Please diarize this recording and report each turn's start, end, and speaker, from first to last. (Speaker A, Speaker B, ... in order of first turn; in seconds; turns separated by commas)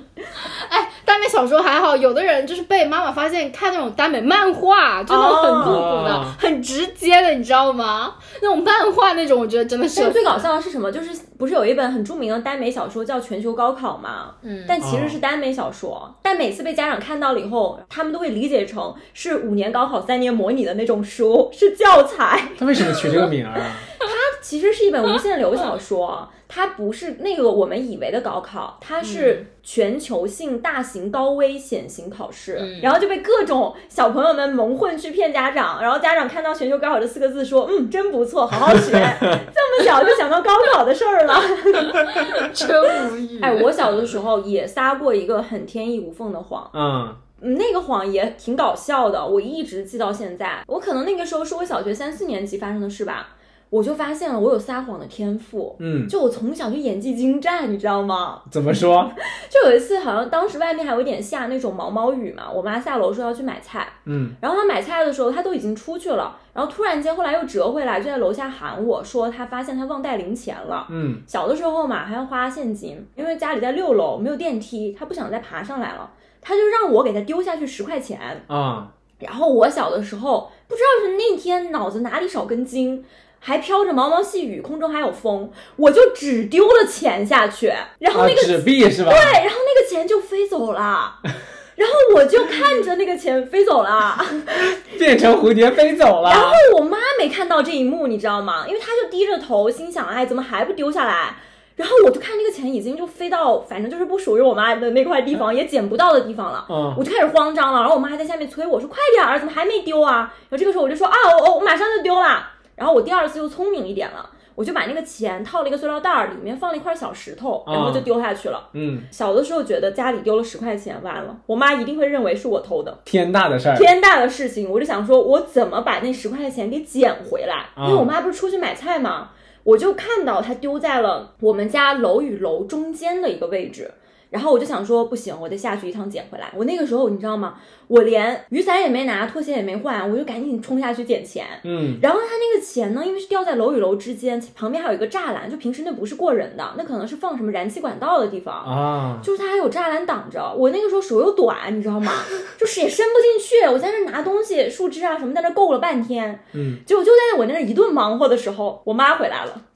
Speaker A: 0.5-10.4, Speaker B: 5.1-5.9, Speaker C: 5.6-6.4, Speaker B: 9.9-23.3, Speaker A: 14.4-14.8, Speaker C: 14.8-15.2, Speaker C: 22.6-23.9, Speaker B: 23.9-42.4, Speaker A: 29.0-29.4, Speaker A: 32.6-33.0, Speaker C: 38.7-39.4, Speaker A: 42.1-43.7, Speaker B: 43.4-46.7, Speaker C: 46.7-47.2, Speaker B: 47.4-58.5, Speaker C: 55.8-56.1, Speaker C: 58.5-59.1, Speaker B: 59.2-78.4, Speaker C: 64.0-64.3, Speaker C: 70.9-71.2, Speaker C: 78.5-78.9, Speaker B: 79.2-94.8, Speaker C: 88.1-89.4, Speaker C: 94.8-96.6, Speaker B: 96.2-123.0, Speaker C: 106.7-107.0, Speaker C: 117.7-118.1, Speaker C: 118.7-119.1, Speaker C: 123.0-123.9, Speaker B: 123.7-159.6, Speaker C: 127.8-128.1, Speaker C: 141.6-142.0, Speaker C: 148.6-149.3, Speaker C: 156.5-156.8